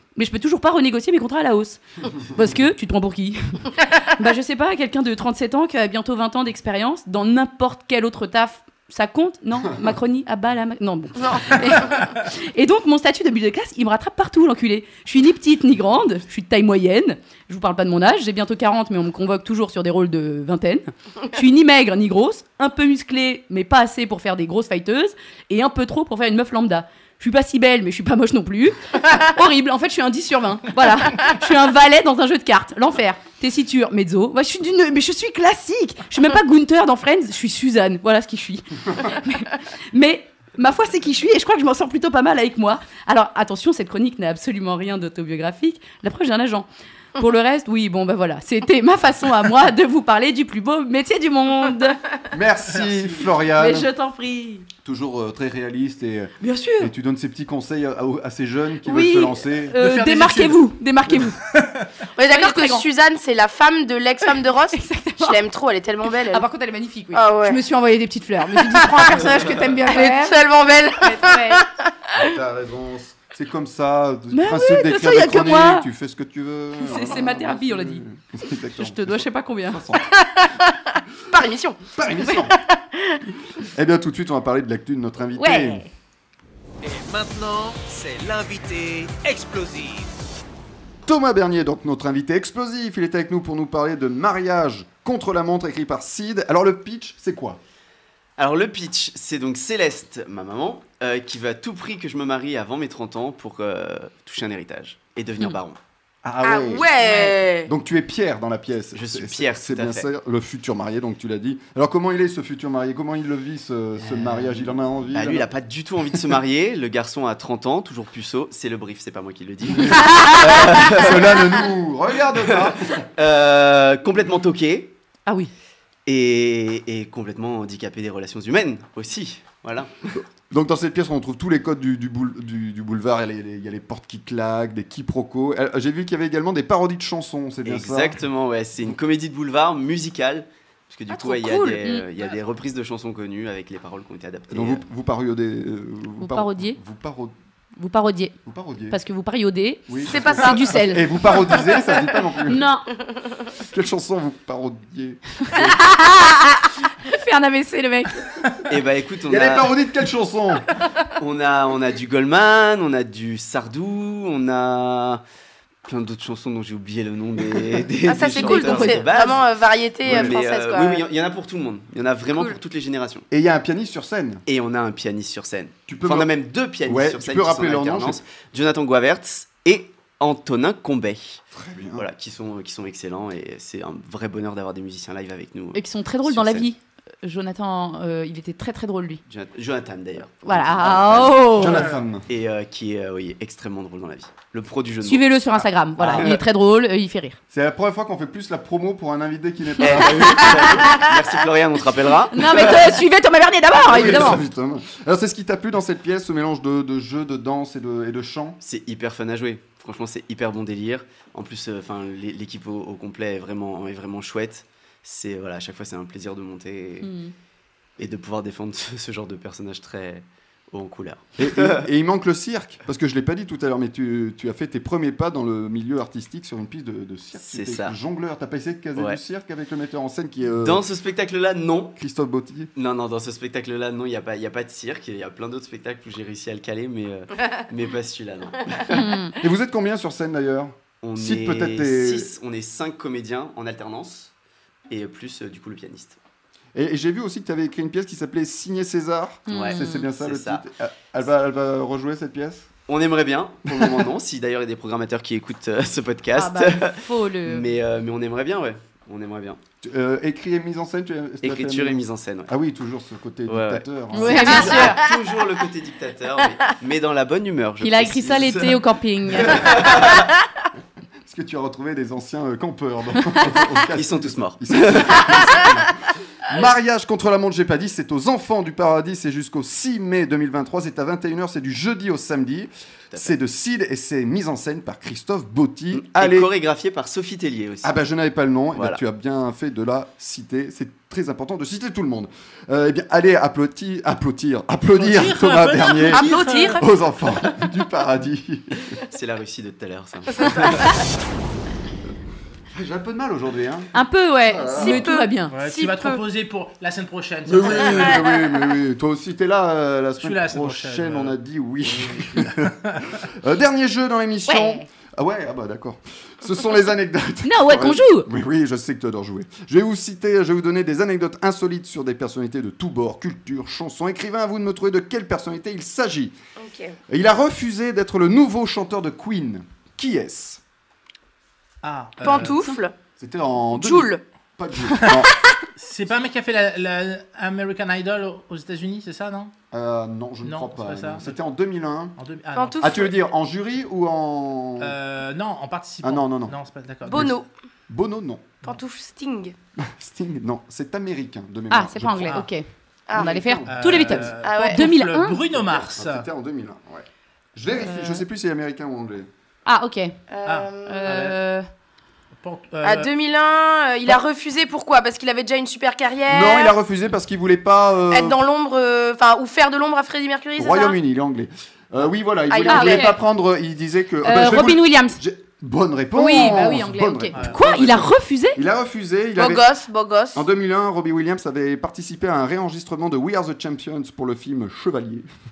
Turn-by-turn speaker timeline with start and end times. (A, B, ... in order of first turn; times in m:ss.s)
0:00.2-0:46.6 A
0:11.2-0:11.9 B
0:47.2-0:52.0 A
0:52.3-0:53.9 C
0:52.8-0:53.2 D
0:53.5-0:54.7 A
0:54.8-0:59.8 C
0:56.4-0:56.9 A
0:58.8-1:01.4 A
0:59.8-1:00.7 D
1:01.5-1:01.9 D
1:02.2-1:06.4 B
1:02.3-1:02.8 A
1:04.8-1:05.4 A
1:06.3-1:10.4 A
1:07.1-1:07.6 B
1:08.6-1:09.0 B
1:09.9-1:12.2 B
1:11.0-1:11.6 A
1:12.2-1:20.1 C
1:14.3-1:15.9 A
1:16.8-1:18.0 A
1:18.8-1:19.8 A
1:20.1-1:23.2 B
1:21.9-1:22.6 C
1:23.7-1:25.8 C
1:25.4-1:25.8 A
1:26.8-1:30.1 E
1:31.0-1:37.6 C
1:38.4-1:45.8 F
1:46.2-1:55.5 C
1:46.4-1:47.7 B
1:48.9-1:50.1 F
1:54.0-2:01.4 F
1:59.7-2:03.0 C
2:02.4-2:04.9 F
2:05.2-2:05.5 A
2:06.0-2:09.9 F
2:10.5-2:18.2 C
2:17.6-2:24.8 F
2:21.1-2:22.0 A
2:24.5-2:27.3 C
2:26.2-2:26.8 A
2:27.8-2:28.3 A
2:28.4-2:29.0 C
2:28.9-2:31.0 A
2:29.9-2:32.7 C
2:30.1-2:30.6 B
2:32.5-2:32.8 A
2:33.6-2:35.8 C
2:35.5-2:38.2 A
2:38.7-2:39.7 F
2:39.3-2:40.6 C
2:41.2-2:45.2 F
2:45.8-2:49.5 F
2:48.0-2:51.0 B
2:48.3-2:49.1 A
2:50.0-2:50.4 C
2:50.0-2:53.2 F
2:52.3-2:52.6 B
2:53.3-2:54.4 C
2:54.5-3:01.4 F
2:55.9-2:56.3 C
2:56.8-2:58.2 C
3:01.5-3:02.0 C
3:02.0-3:06.7 F
3:05.7-3:09.2 A
3:09.3-3:11.6 F
3:10.4-3:11.8 A
3:11.5-3:12.2 C
3:12.3-3:15.4 F
3:15.0-3:17.4 A
3:16.0-3:16.4 C
3:16.0-3:16.4 F
3:17.5-3:21.0 C
3:19.8-3:23.0 F
3:20.0-3:21.0 A
3:22.3-3:24.4 A
3:23.8-3:28.6 C
3:23.9-3:24.2 F
3:28.6-3:37.1 F
3:37.0-3:37.3 A
3:38.0-3:41.8 F
3:41.4-3:50.8 C
3:47.4-3:47.9 F
3:50.5-3:52.0 F
3:52.0-3:52.7 C
3:52.7-3:59.0 F
3:58.9-3:59.3 A
3:59.4-4:02.3 C
4:01.0-4:04.3 F
4:04.9-4:06.2 F
4:06.7-4:12.7 C
4:09.5-4:10.1 A
4:09.5-4:10.6 F
4:12.9-4:19.6 F
4:13.7-4:14.1 C
4:16.3-4:17.7 A
4:19.8-4:25.0 C
4:21.4-4:22.5 F
4:23.5-4:28.8 F
4:24.1-4:25.0 A
4:24.7-4:25.1 B
4:27.8-4:29.7 A
4:29.3-4:30.2 C
4:29.3-4:30.3 F
4:31.2-4:35.9 C
4:33.9-4:35.7 F
4:36.4-4:46.5 C
4:45.9-4:47.9 F
4:47.8-4:58.9 C
4:48.7-4:49.0 F
4:55.0-4:56.8 D
4:56.1-4:56.8 B
4:59.1-5:00.9 F
5:00.5-5:00.7 B
5:02.7-5:05.1 C
5:03.9-5:05.5 A
5:04.7-5:06.2 B
5:05.5-5:08.2 D
5:07.4-5:26.3 C
5:08.0-5:08.4 B
5:10.2-5:11.4 D
5:11.9-5:13.0 D
5:14.5-5:14.8 A
5:17.4-5:18.3 A
5:26.6-5:27.0 B
5:27.1-5:30.6 C
5:31.8-5:32.6 D
5:32.2-5:32.9 B
5:33.2-5:35.3 C
5:33.7-5:34.2 B
5:35.8-5:39.5 D
5:39.7-5:42.1 C
5:40.4-5:41.3 D
5:42.2-5:42.9 D
5:42.6-5:43.1 B
5:42.8-5:45.0 C
5:44.8-5:47.2 D
5:46.0-5:46.5 C
5:47.0-5:47.5 B
5:47.1-5:48.5 C
5:48.6-5:49.5 B
5:49.8-5:52.4 C
5:51.7-5:55.4 A
5:53.1-5:53.3 B
5:53.1-5:54.3 C
5:53.7-5:56.2 D
5:54.4-5:54.8 B
5:55.5-5:59.3 C
5:59.6-6:00.2 A
6:00.3-6:01.0 B
6:00.4-6:01.4 D
6:00.8-6:01.6 A
6:02.4-6:03.1 D
6:02.8-6:06.7 B
6:06.3-6:08.4 C
6:08.1-6:11.0 B
6:10.6-6:19.7 C
6:12.5-6:13.1 B
6:12.7-6:13.2 A
6:14.2-6:15.2 A
6:16.1-6:18.6 A
6:19.4-6:20.4 B
6:20.3-6:25.3 C